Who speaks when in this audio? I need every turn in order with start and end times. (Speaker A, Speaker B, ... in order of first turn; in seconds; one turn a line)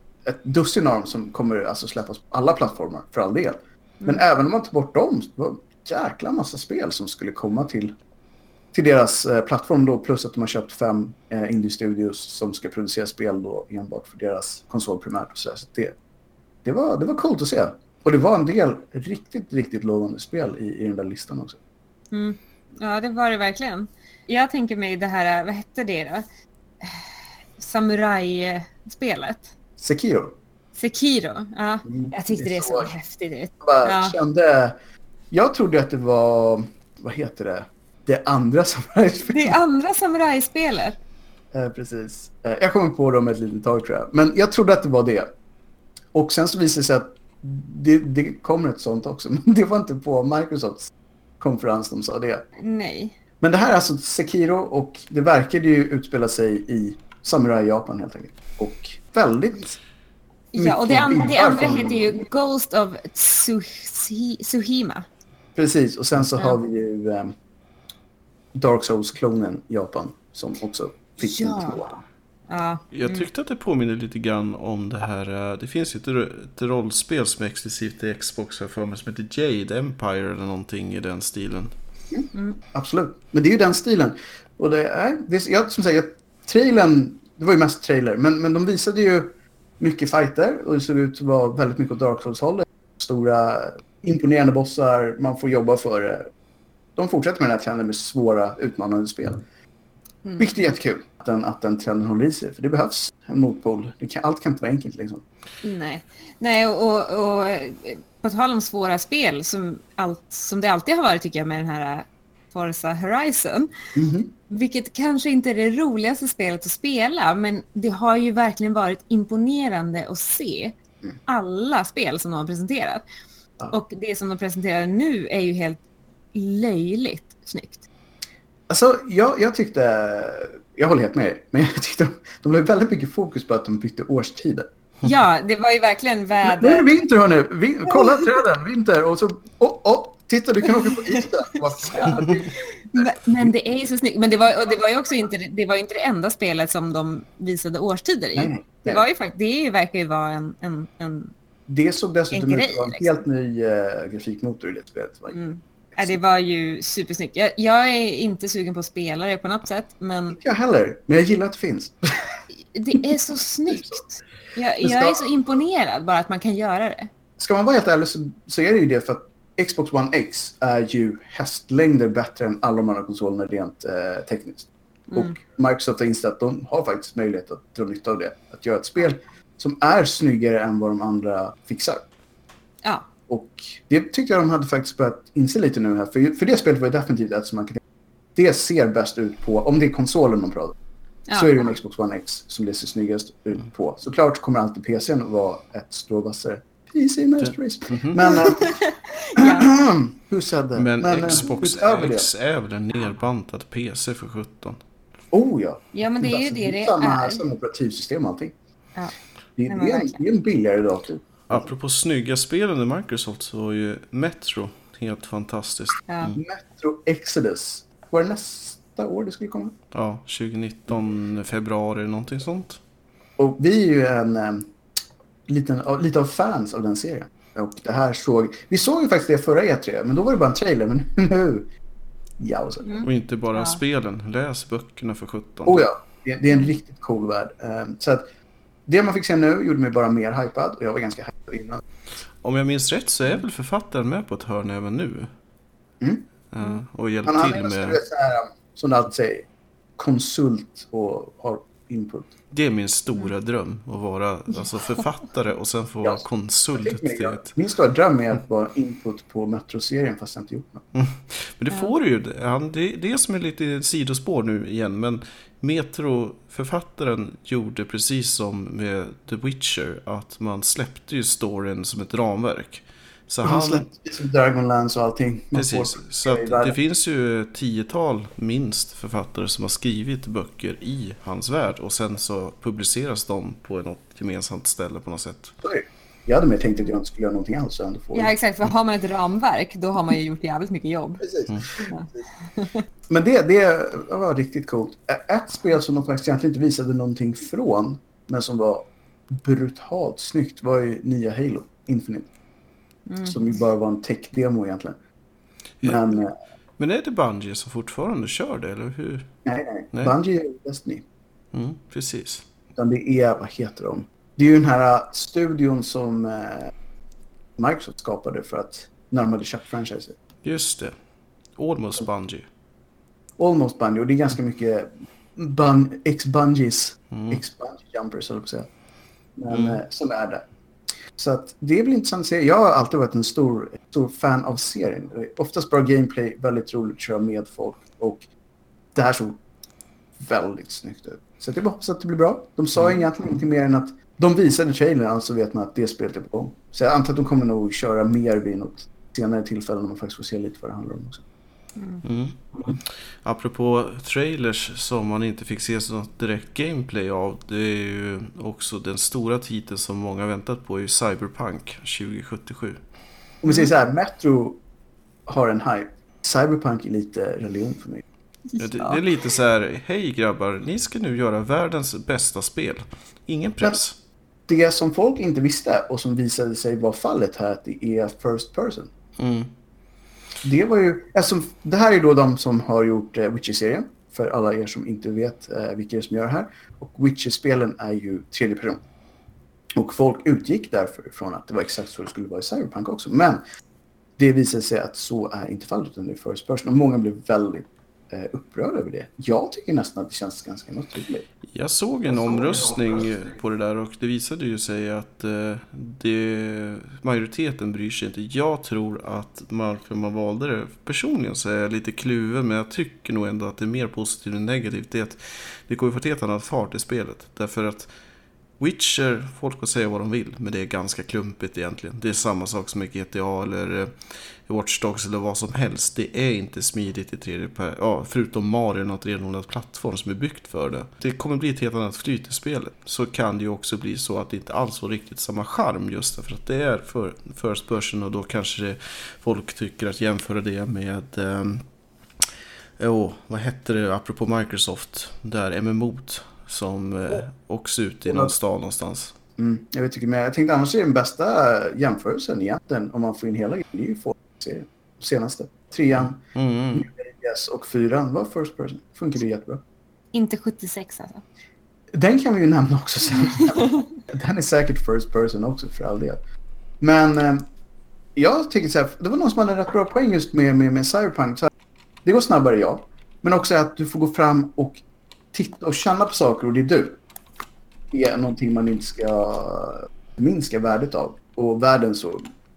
Speaker A: 0.2-8.0
Speaker A: 8.7-16.0
Speaker A: 16.6-21.6
Speaker B: 22.1-26.2
Speaker B: 26.8-27.1
Speaker B: 27.6-29.5
Speaker A: 29.8-30.4
Speaker B: 30.8-34.2
Speaker A: 31.9-32.9
Speaker A: 33.6-34.8
Speaker A: 35.3-39.6
Speaker B: 39.3-41.0
Speaker A: 41.5-45.3
Speaker A: 46.1-52.5
Speaker B: 52.6-53.1
Speaker A: 53.4-59.8
Speaker B: 60.5-65.1
Speaker A: 60.5-62.1
Speaker A: 65.5-67.3
Speaker A: 68.5-72.0
Speaker B: 71.2-71.8
Speaker B: 72.5-73.3
Speaker C: 72.9-81.7
Speaker A: 82.1-96.3
Speaker B: 82.3-82.6
Speaker A: 97.0-99.4
Speaker B: 100.2-100.7
Speaker A: 100.4-105.2
Speaker B: 105.6-113.7
Speaker A: 114.0-114.3
Speaker B: 114.5-120.8
Speaker B: 121.3-123.0
Speaker B: 123.7-125.8
Speaker B: 126.3-127.8
Speaker A: 128.7-134.7
Speaker B: 135.0-136.9
Speaker A: 136.4-143.5
Speaker B: 137.9-138.3
Speaker B: 140.7-142.4
Speaker B: 142.9-151.3
Speaker A: 148.3-149.1
Speaker A: 151.7-155.4
Speaker B: 152.3-153.1
Speaker B: 155.3-160.4
Speaker A: 160.3-162.3
Speaker B: 162.7-167.1
Speaker A: 163.7-164.0
Speaker A: 164.8-165.3
Speaker A: 167.4-182.1
Speaker B: 175.1-175.4
Speaker A: 183.3-187.8
Speaker A: 188.4-190.7
Speaker B: 191.3-191.7
Speaker A: 191.3-198.8
Speaker C: 197.4-198.2
Speaker B: 198.3-199.7
Speaker A: 199.4-202.3
Speaker C: 200.8-204.8
Speaker A: 205.3-208.6
Speaker B: 205.9-207.4
Speaker A: 209.6-211.7
Speaker B: 209.7-210.2
Speaker C: 211.5-216.4
Speaker B: 216.1-216.4
Speaker A: 216.4-219.8
Speaker C: 219.9-222.8
Speaker A: 223.4-224.7
Speaker A: 225.5-231.7
Speaker A: 232.4-233.0
Speaker B: 232.8-233.8
Speaker C: 233.0-235.8
Speaker A: 235.7-238.3
Speaker A: 238.9-241.8
Speaker C: 242.4-245.3
Speaker A: 246.0-246.3
Speaker C: 246.5-248.0
Speaker A: 247.3-249.5
Speaker A: 250.0-252.3
Speaker C: 252.5-257.5
Speaker A: 256.8-260.9
Speaker C: 260.9-273.8
Speaker A: 273.4-276.8
Speaker C: 275.6-285.5
Speaker A: 285.6-288.3
Speaker B: 288.1-291.2
Speaker A: 291.2-291.9
Speaker B: 291.9-292.8
Speaker A: 293.1-302.3
Speaker B: 303.1-303.6
Speaker A: 303.2-305.0
Speaker A: 305.8-306.3
Speaker C: 306.8-309.3
Speaker A: 309.4-311.1
Speaker C: 311.5-312.4
Speaker A: 312.8-316.7
Speaker A: 317.6-320.2
Speaker C: 320.4-320.9
Speaker C: 321.6-322.4
Speaker A: 323.4-328.7
Speaker C: 327.1-327.4
Speaker A: 329.4-330.5
Speaker C: 329.5-329.8
Speaker A: 331.2-338.3
Speaker A: 338.9-339.4
Speaker A: 340.2-351.2
Speaker B: 351.8-352.0
Speaker C: 352.0-362.8
Speaker A: 363.4-364.6
Speaker A: 365.3-368.0
Speaker B: 368.5-369.0
Speaker C: 368.6-373.9
Speaker A: 374.5-378.9
Speaker C: 379.2-379.5
Speaker A: 380.4-388.8
Speaker A: 389.8-393.4
Speaker A: 394.2-401.3
Speaker C: 401.5-417.9
Speaker A: 402.2-402.7
Speaker C: 418.6-423.9
Speaker C: 424.5-441.6
Speaker C: 442.8-449.1
Speaker A: 448.1-448.3
Speaker A: 449.4-456.2
Speaker C: 456.4-456.9
Speaker A: 456.7-459.6
Speaker B: 460.1-461.2
Speaker A: 461.9-466.2
Speaker A: 466.8-467.5
Speaker A: 468.1-471.5
Speaker A: 472.0-477.0
Speaker A: 477.9-482.3